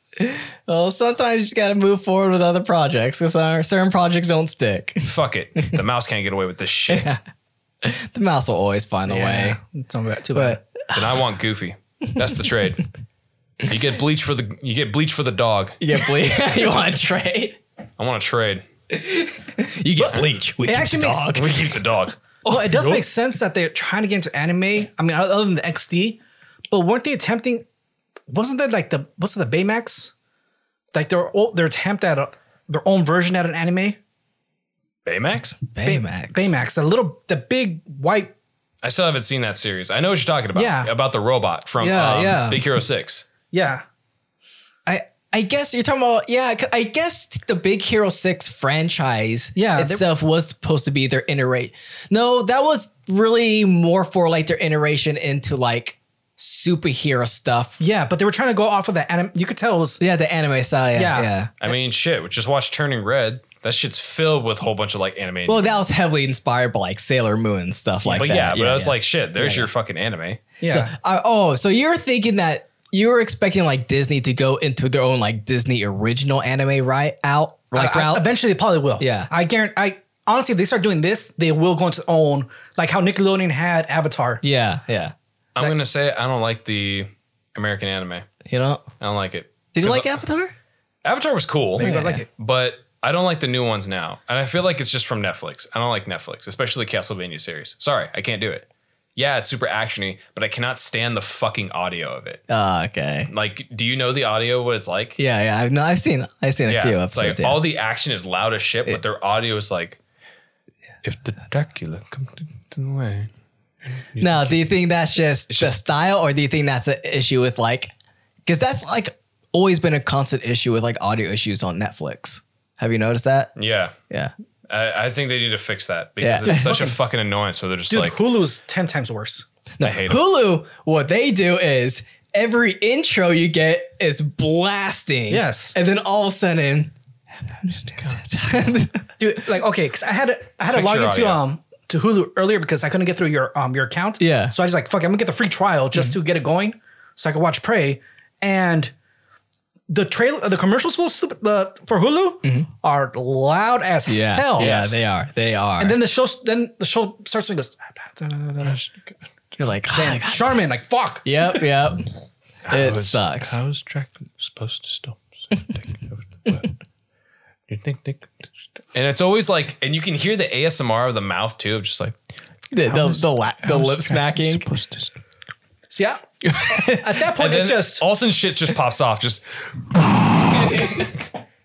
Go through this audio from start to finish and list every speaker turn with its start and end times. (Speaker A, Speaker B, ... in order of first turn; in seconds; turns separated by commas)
Speaker A: 0.2-5.1, Speaker B: 5.0-7.1, Speaker A: 6.9-7.2, Speaker A: 7.8-9.6, Speaker C: 9.1-10.6, Speaker A: 10.3-11.2, Speaker B: 10.9-12.9, Speaker B: 13.7-15.8, Speaker A: 15.8-17.6, Speaker B: 18.0-18.6, Speaker A: 18.9-21.6, Speaker C: 20.6-21.4, Speaker B: 21.3-23.0, Speaker C: 22.4-26.2, Speaker A: 22.5-23.0, Speaker C: 26.7-27.6, Speaker C: 28.3-30.1, Speaker C: 30.9-34.0, Speaker B: 35.1-35.6, Speaker A: 35.7-36.5, Speaker C: 35.9-38.3, Speaker B: 38.8-43.3, Speaker C: 40.5-40.9, Speaker A: 41.8-42.6, Speaker C: 43.5-43.8, Speaker A: 44.9-57.8, Speaker C: 49.5-50.0, Speaker C: 57.8-60.0, Speaker A: 60.0-61.5, Speaker C: 61.0-61.3, Speaker B: 61.6-65.7, Speaker A: 65.5-69.7, Speaker C: 68.0-68.4, Speaker B: 68.2-70.4, Speaker C: 70.6-71.0, Speaker A: 70.7-78.3, Speaker C: 77.8-84.4, Speaker A: 79.0-79.3, Speaker A: 84.4-85.2, Speaker B: 85.6-88.3, Speaker A: 88.5-88.9, Speaker B: 89.0-90.1, Speaker A: 89.8-90.5, Speaker B: 91.0-102.4, Speaker C: 91.8-92.3, Speaker A: 91.8-92.2, Speaker A: 102.5-103.3, Speaker B: 103.3-105.2, Speaker A: 105.2-107.6, Speaker B: 106.7-110.0, Speaker B: 111.0-113.3, Speaker B: 113.9-114.7, Speaker A: 114.2-117.9, Speaker B: 115.5-115.8, Speaker A: 118.5-123.5, Speaker B: 123.6-124.0, Speaker B: 124.7-128.2, Speaker A: 126.2-126.9, Speaker C: 126.5-127.0, Speaker C: 127.9-129.5, Speaker A: 129.8-139.1, Speaker B: 129.8-130.2, Speaker C: 135.3-135.8, Speaker C: 139.2-148.9, Speaker B: 140.7-141.4, Speaker A: 144.2-144.5, Speaker C: 149.9-154.7, Speaker A: 154.1-156.0, Speaker B: 154.6-155.0, Speaker C: 155.8-158.8, Speaker B: 158.6-159.1, Speaker A: 159.6-160.6, Speaker C: 159.9-161.3, Speaker A: 161.2-162.1, Speaker B: 162.7-166.8, Speaker A: 162.7-163.6, Speaker B: 167.7-172.2, Speaker A: 172.7-174.7, Speaker B: 172.9-175.2, Speaker C: 175.9-178.1, Speaker B: 176.4-181.1, Speaker A: 180.5-181.1